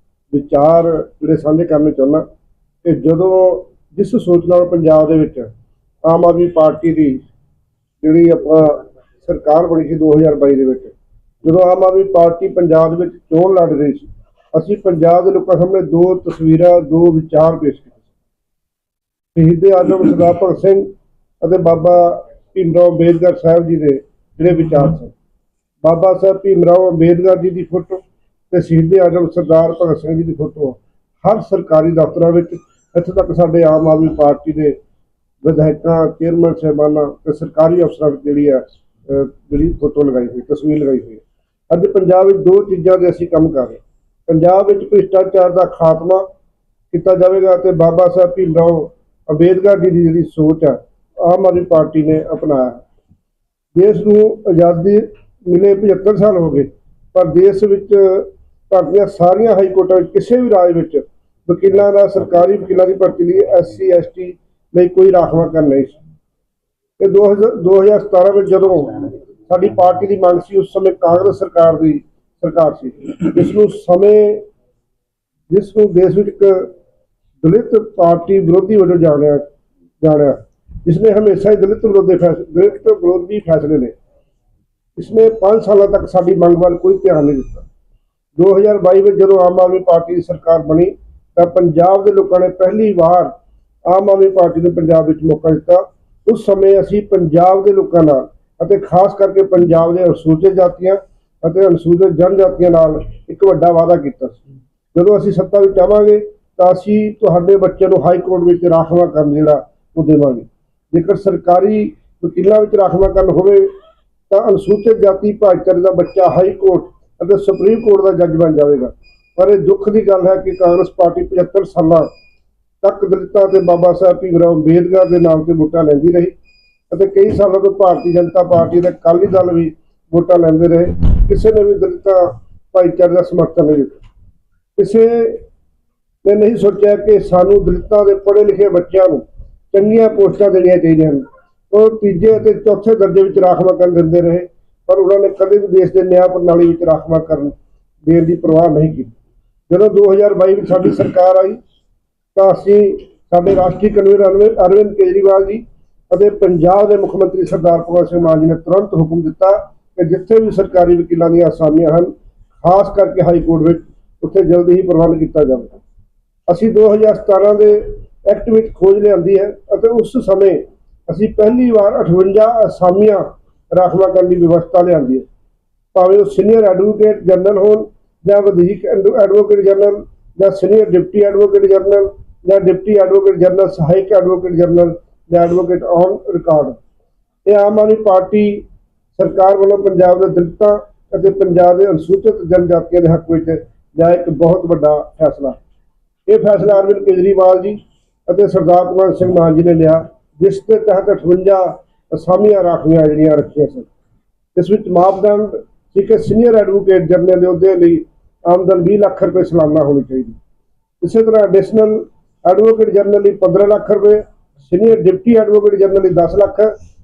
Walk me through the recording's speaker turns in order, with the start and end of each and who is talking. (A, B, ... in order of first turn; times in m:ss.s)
0:00.3-0:02.2 A
0:02.8-0:05.5 A
0:06.0-0:07.2 A
0:08.0-0:18.1 A
0:19.3-0:20.9 A
0:21.4-0:25.1 A
0:25.8-0:34.8 A
0:35.4-0:46.2 A
0:46.9-0:52.8 A
0:53.7-1:06.0 A
1:07.0-1:14.4 A
1:15.5-1:16.7 A
1:17.4-1:19.4 A
1:20.0-1:23.9 A
1:25.0-1:27.7 A
1:28.4-1:33.3 A
1:33.9-1:44.4 A
1:44.9-1:53.7 A
1:54.3-2:02.1 A
2:02.8-2:06.3 A
2:06.9-2:14.0 A
2:14.8-2:15.4 A
2:16.2-2:29.1 A
2:29.7-2:31.6 A
2:32.3-2:45.8 A
2:46.5-2:55.2 A
2:55.9-3:06.8 A
3:07.4-3:15.6 A
3:16.3-3:23.9 A
3:24.5-3:30.4 A
3:31.0-3:36.7 A